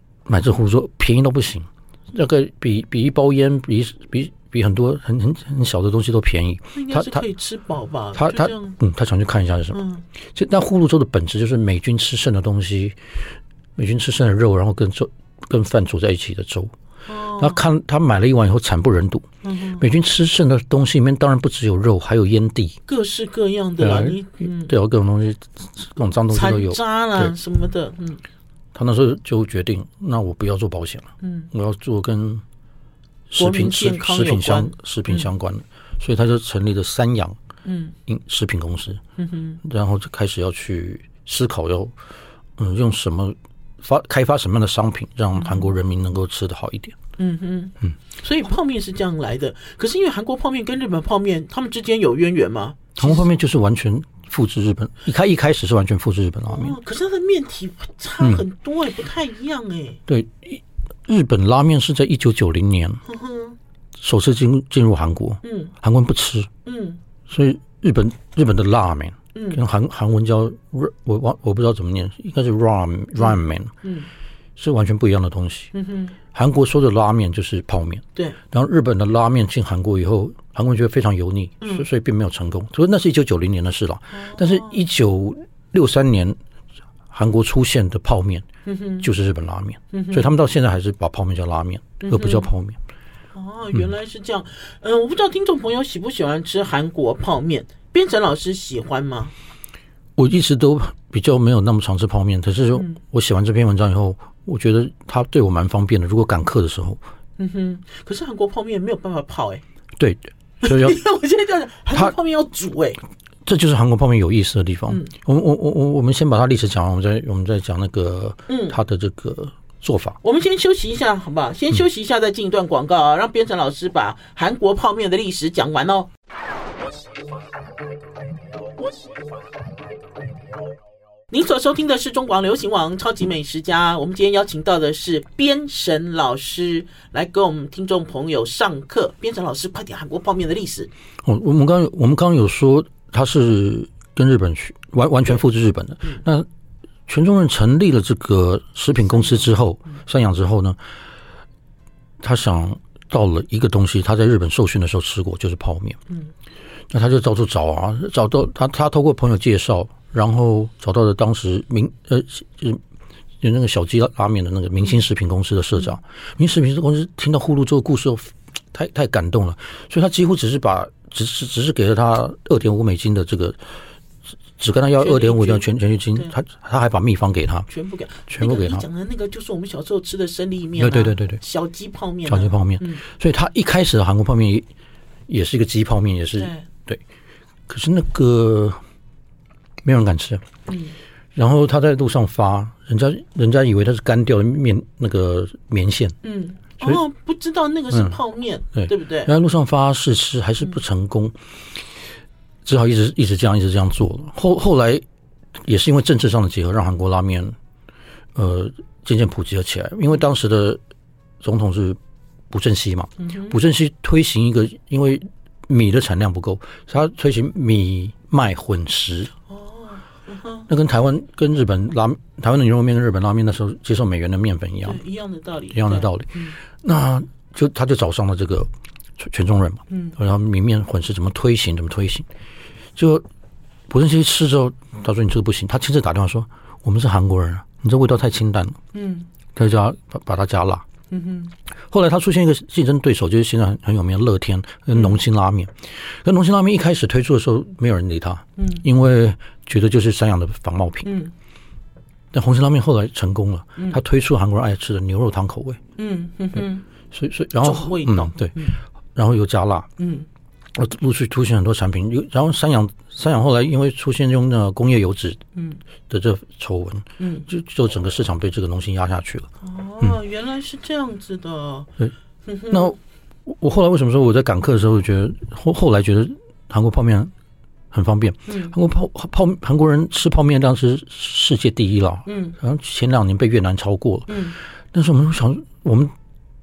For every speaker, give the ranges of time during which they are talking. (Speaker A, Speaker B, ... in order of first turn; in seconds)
Speaker A: 0.3-7.2, 8.2-9.8, 10.3-13.0, 13.8-16.7, 17.4-19.3, 19.8-22.8, 23.8-27.3, 28.7-32.4, 33.3-37.4, 38.1-39.0, 39.6-42.0, 42.6-47.0, 53.0-56.8, 60.1-63.0, 64.0-66.5, 67.3-73.7, 74.6-75.7, 76.3-86.4, 87.1-88.5, 89.0-92.8, 100.2-107.0, 110.0-111.0, 113.5-120.2, 141.2-146.5, 147.1-150.8, 152.2-156.0, 156.9-162.8, 163.4-173.6, 174.6-177.7, 178.3-178.9, 180.8-181.4, 182.3-184.7, 185.3-187.0, 187.7-188.8, 189.8-190.4, 191.3-196.2, 197.9-198.2, 198.8-201.4, 202.6-205.0, 205.6-207.6, 208.3-210.8, 211.4-212.0, 212.5-219.3, 220.7-225.0, 225.7-232.3, 233.0-233.2, 233.9-238.8, 239.5-240.8, 241.9-251.1, 252.3-255.8, 257.1-259.9, 260.7-265.4, 266.1-269.5, 272.7-277.3, 277.9-284.4, 284.9-286.1
Speaker B: 6.7-8.8, 9.7-10.0, 17.1-17.6, 19.4-19.9, 22.9-24.7, 26.3-28.2, 31.2-31.5, 33.4-35.3, 37.6-38.0, 39.2-39.6, 45.4-45.7, 47.2-53.2, 56.5-60.0, 63.1-63.6, 65.4-65.7, 66.7-67.0, 69.3-69.6, 73.2-74.1, 75.7-76.2, 81.6-81.9, 84.1-84.8, 88.7-89.1, 89.9-90.3, 92.0-92.5, 93.3-99.3, 107.4-109.6, 110.6-113.0, 118.5-118.8, 120.2-126.1, 131.3-140.9, 149.1-150.0, 175.0-176.3, 177.7-183.0, 186.4-186.7, 190.7-190.9, 196.2-199.3, 213.2-213.6, 219.5-220.7, 224.8-226.6, 229.9-230.2, 238.9-239.3, 241.1-241.5, 244.9-245.2, 248.6-248.8, 251.1-251.3, 256.0-256.9, 257.6-258.8, 260.0-260.3, 265.6-265.8, 267.2-267.5, 269.6-271.9, 272.5-273.0, 278.5-278.7, 282.3-282.6, 284.3-284.6